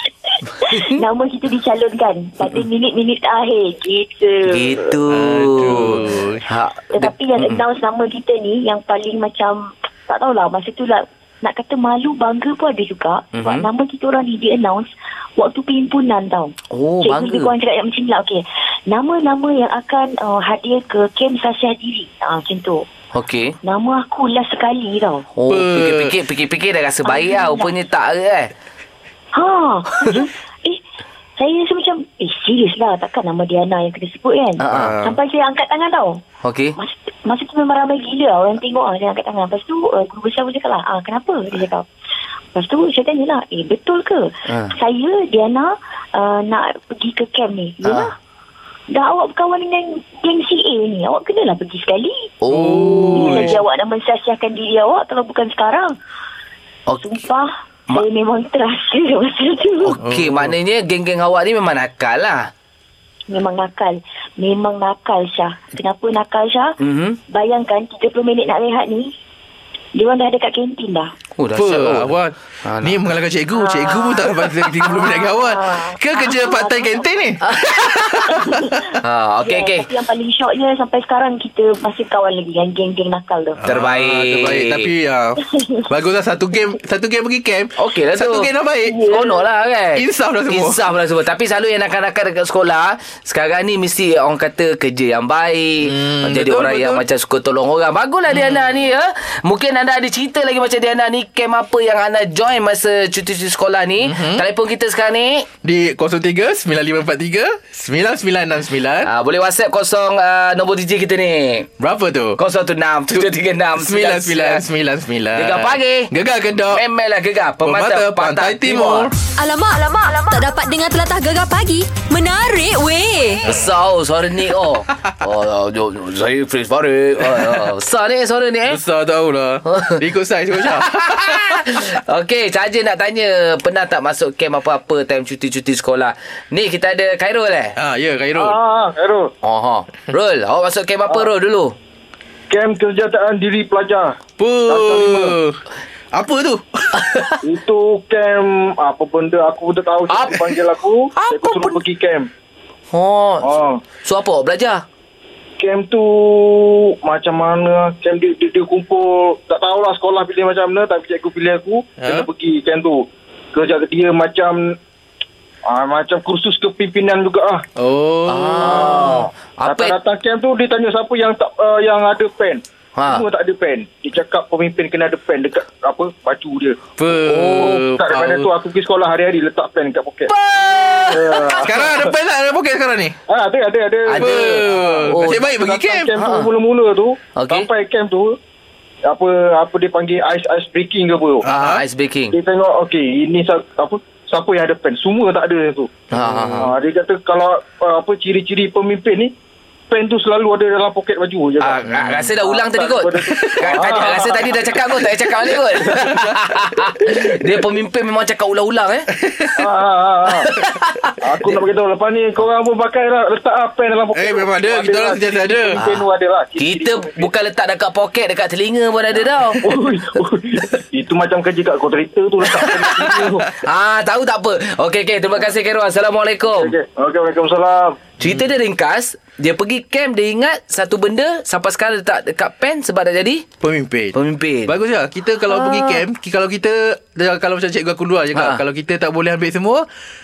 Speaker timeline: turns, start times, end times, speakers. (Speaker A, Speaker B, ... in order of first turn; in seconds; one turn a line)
Speaker A: 0.6-5.0
Speaker B: 0.6-1.0
Speaker B: 4.5-7.6
Speaker C: 5.1-6.5
Speaker A: 6.9-22.9
Speaker B: 13.3-13.7
Speaker B: 16.7-17.5
Speaker B: 23.1-23.6
Speaker A: 23.6-25.3
Speaker B: 25.4-28.5
Speaker C: 25.5-26.1
Speaker A: 27.0-27.8
Speaker A: 29.3-30.8
Speaker A: 31.4-36.2
Speaker B: 34.6-35.0
Speaker C: 34.7-35.2
Speaker B: 36.4-36.8
Speaker A: 36.8-41.9
Speaker A: 42.5-48.2
Speaker B: 44.5-44.7
Speaker B: 47.8-48.1
Speaker A: 48.9-52.3
Speaker B: 52.4-53.6
Speaker C: 52.5-53.6
Speaker A: 53.1-56.0
Speaker B: 56.9-57.1
Speaker A: 57.0-60.0
Speaker B: 59.8-62.5
Speaker C: 60.0-60.5
Speaker A: 63.3-66.8
Speaker B: 66.8-67.2
Speaker A: 67.3-69.1
Speaker A: 70.0-71.1
Speaker B: 71.4-73.0
Speaker C: 71.6-78.9
Speaker A: 73.5-77.1
Speaker B: 77.5-78.0
Speaker A: 78.3-83.6
Speaker B: 79.0-79.9
Speaker C: 83.6-89.1
Speaker B: 83.7-84.9
Speaker A: 85.6-85.9
Speaker B: 87.8-105.5
Speaker C: 90.0-90.8
Speaker C: 95.8-97.0
Speaker C: 104.0-104.4
Speaker C: 105.6-109.1
Speaker B: 109.0-111.7
Speaker C: 111.8-112.4
Speaker B: 112.4-114.7
Speaker C: 113.1-116.8
Speaker B: 115.3-116.1
Speaker B: 116.7-119.1
Speaker C: 117.6-119.1
Speaker D: 119.4-123.4
Speaker B: 123.5-128.8
Speaker C: 127.3-127.6
Speaker C: 128.7-131.7
Speaker B: 129.7-130.0
Speaker B: 130.6-137.8
Speaker C: 137.8-138.6
Speaker E: 138.3-139.3
Speaker B: 139.4-141.8
Speaker E: 142.5-145.4
Speaker C: 144.4-145.6
Speaker C: 146.1-147.3
Speaker E: 147.4-152.3
Speaker B: 150.1-150.4
Speaker B: 151.2-151.8
Speaker B: 152.9-154.8
Speaker E: 153.4-153.8
Speaker E: 155.6-164.7
Speaker C: 162.0-162.3
Speaker E: 165.7-167.7
Speaker C: 167.8-168.9
Speaker B: 168.3-170.0
Speaker E: 168.6-176.8
Speaker B: 173.0-173.3
Speaker C: 177.0-178.5
Speaker B: 177.2-177.9
Speaker E: 178.0-180.3
Speaker B: 180.3-181.8
Speaker C: 181.1-183.2
Speaker E: 181.1-182.1
Speaker E: 183.3-188.4
Speaker B: 184.1-185.5
Speaker C: 184.1-186.1
Speaker B: 186.2-186.5
Speaker B: 187.4-187.7
Speaker E: 189.1-191.4
Speaker C: 191.4-191.8
Speaker B: 191.4-192.4
Speaker E: 192.3-195.9
Speaker B: 196.1-196.7
Speaker C: 196.2-196.6
Speaker E: 196.6-199.3
Speaker E: 199.9-204.7
Speaker B: 201.6-209.5
Speaker C: 201.9-202.3
Speaker C: 203.4-204.1
Speaker C: 205.9-206.4
Speaker E: 209.6-210.5
Speaker B: 210.4-211.1
Speaker E: 211.2-217.3
Speaker C: 214.1-215.8
Speaker B: 216.6-219.8
Speaker E: 219.6-223.5
Speaker B: 223.6-226.7
Speaker E: 226.5-228.1
Speaker B: 228.2-233.6
Speaker C: 233.6-239.9
Speaker B: 234.1-234.7
Speaker B: 235.5-236.0
Speaker B: 238.3-238.6